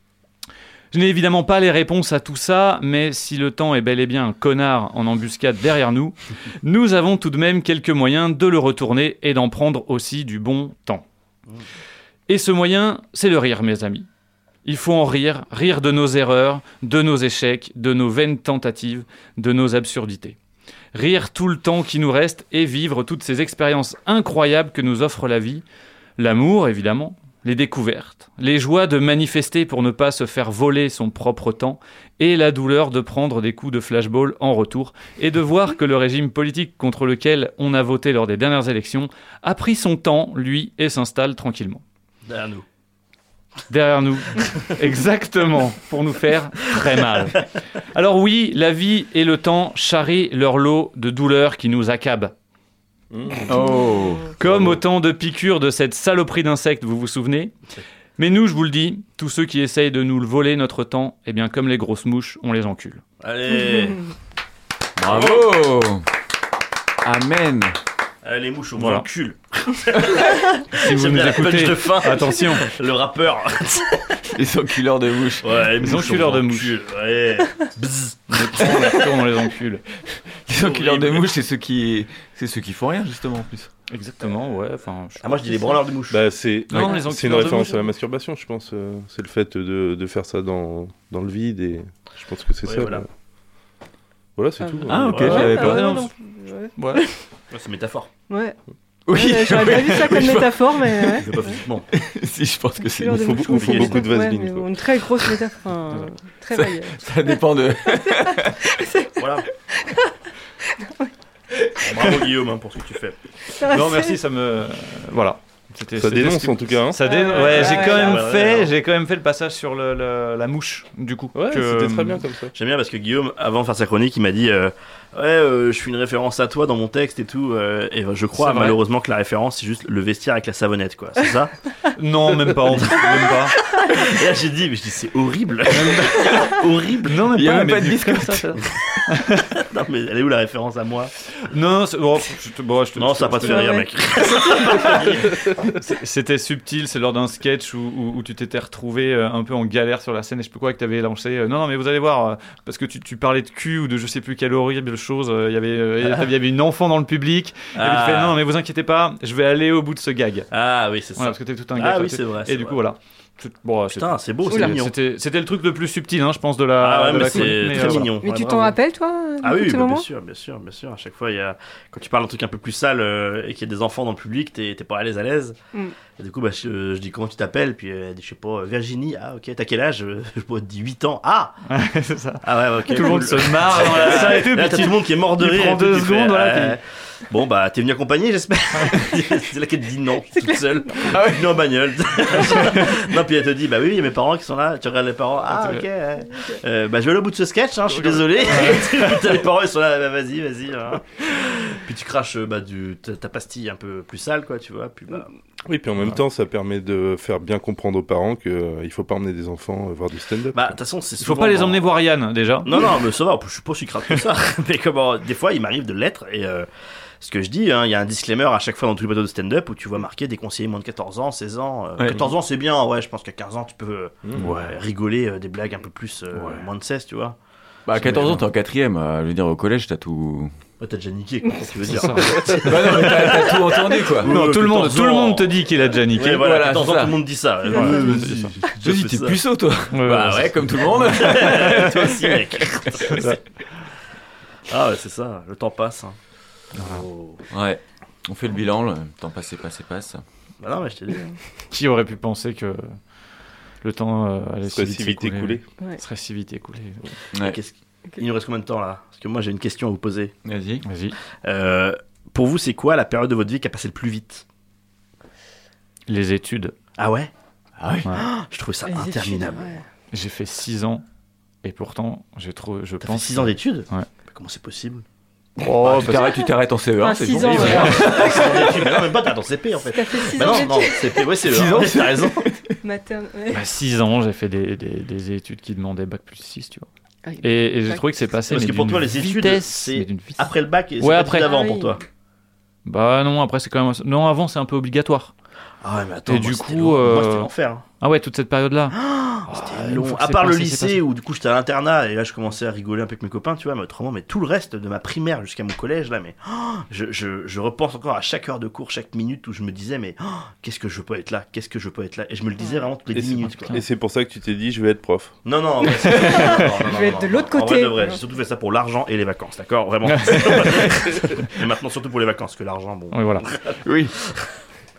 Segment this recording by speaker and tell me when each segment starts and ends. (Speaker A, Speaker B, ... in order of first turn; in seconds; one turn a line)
Speaker A: 0.9-11.0
Speaker A: 12.3-14.1
Speaker A: 14.6-20.4
Speaker A: 20.9-25.6
Speaker A: 26.2-41.8
Speaker B: 42.2-42.6
Speaker A: 43.7-52.3
Speaker C: 53.1-53.5
Speaker D: 53.5-54.4
Speaker A: 54.4-57.5
Speaker C: 54.4-54.8
Speaker A: 58.2-63.0
Speaker B: 63.2-64.0
Speaker D: 65.0-66.0
Speaker B: 65.0-65.5
Speaker D: 67.0-67.8
Speaker B: 68.2-74.2
Speaker A: 68.8-69.1
Speaker A: 70.7-72.7
Speaker D: 74.3-75.5
Speaker B: 75.4-79.1
Speaker A: 75.8-76.7
Speaker A: 78.3-79.8
Speaker D: 80.5-83.7
Speaker B: 80.5-81.3
Speaker A: 83.9-85.7
Speaker B: 85.2-86.2
Speaker C: 86.1-93.1
Speaker A: 86.7-87.8
Speaker B: 92.6-93.0
Speaker C: 94.4-95.4
Speaker E: 94.6-97.1
Speaker D: 94.9-96.0
Speaker A: 95.4-96.1
Speaker A: 96.8-97.0
Speaker B: 97.5-98.1
Speaker E: 98.3-98.6
Speaker D: 99.0-101.2
Speaker E: 99.1-101.3
Speaker B: 101.1-101.9
Speaker D: 101.9-103.7
Speaker E: 102.9-107.4
Speaker C: 103.1-104.7
Speaker B: 103.6-104.0
Speaker D: 106.5-108.6
Speaker E: 108.0-109.1
Speaker B: 109.2-109.5
Speaker E: 109.8-110.1
Speaker E: 110.8-111.1
Speaker B: 111.8-113.2
Speaker E: 113.5-114.2
Speaker A: 113.7-122.2
Speaker C: 116.0-117.0
Speaker E: 117.0-118.2
Speaker B: 117.3-118.7
Speaker C: 121.3-122.5
Speaker B: 122.5-131.5
Speaker A: 128.3-128.8
Speaker A: 131.9-133.6
Speaker B: 132.8-137.3
Speaker A: 137.1-139.4
Speaker D: 137.3-138.5
Speaker B: 139.5-141.1
Speaker A: 141.4-143.7
Speaker B: 142.9-145.5
Speaker E: 143.4-143.9
Speaker A: 145.8-160.5
Speaker B: 157.7-158.4
Speaker B: 160.5-162.8
Speaker A: 161.2-168.1
Speaker B: 163.9-164.9
Speaker E: 164.5-164.8
Speaker B: 166.8-168.8
Speaker E: 167.3-170.1
Speaker B: 169.4-175.6
Speaker B: 176.2-181.6
Speaker A: 181.7-186.8
Speaker B: 182.4-205.3
Speaker D: 191.1-191.5
Speaker C: 198.0-198.4
Speaker A: 198.5-199.0
Speaker C: 205.7-210.8
Speaker B: 210.5-211.8
Speaker A: 211.2-212.8
Speaker B: 212.6-216.7
Speaker B: 217.2-227.4
Speaker D: 222.0-222.3
Speaker D: 227.8-230.5
Speaker B: 227.9-228.4
Speaker B: 230.8-235.6
Speaker A: 231.9-232.6
Speaker D: 232.5-234.3
Speaker A: 234.2-236.4
Speaker B: 236.1-239.4
Speaker D: 236.3-237.2
Speaker A: 237.7-238.5
Speaker D: 238.7-242.5
Speaker A: 239.9-240.4
Speaker B: 240.1-243.4
Speaker A: 243.1-243.4
Speaker B: 244.7-246.2
Speaker B: 246.7-247.4
Speaker A: 246.8-247.0
Speaker D: 247.5-250.2
Speaker B: 250.6-251.3
Speaker A: 251.7-253.0
Speaker A: 253.8-257.1
Speaker C: 254.7-255.6
Speaker D: 257.3-257.6
Speaker B: 257.4-260.3
Speaker D: 260.4-260.8
Speaker A: 260.8-261.2
Speaker B: 261.4-264.4
Speaker A: 266.1-266.7
Speaker B: 267.0-267.3
Speaker D: 267.8-268.1
Speaker B: 268.1-269.8
Speaker E: 268.9-269.8
Speaker A: 270.1-271.0
Speaker A: 271.6-274.1
Speaker B: 273.0-275.0
Speaker A: 275.6-276.3
Speaker B: 275.8-276.2
Speaker D: 275.9-278.9
Speaker E: 277.0-278.6
Speaker B: 277.3-282.4
Speaker A: 277.7-278.0
Speaker E: 279.9-281.2
Speaker D: 281.4-282.7
Speaker E: 282.8-283.6
Speaker A: 283.5-286.9
Speaker E: 287.2-288.1
Speaker A: 287.4-291.6
Speaker B: 288.5-292.0
Speaker E: 291.4-291.9
Speaker A: 292.8-295.3
Speaker B: 295.8-297.8
Speaker A: 296.3-297.5
Speaker A: 298.0-298.9
Speaker B: 298.9-313.8
Speaker A: 299.5-301.0
Speaker C: 313.1-315.4
Speaker A: 313.4-313.8
Speaker B: 315.4-324.5
Speaker E: 316.2-318.2
Speaker A: 320.1-321.0
Speaker A: 323.1-323.4
Speaker D: 323.8-324.1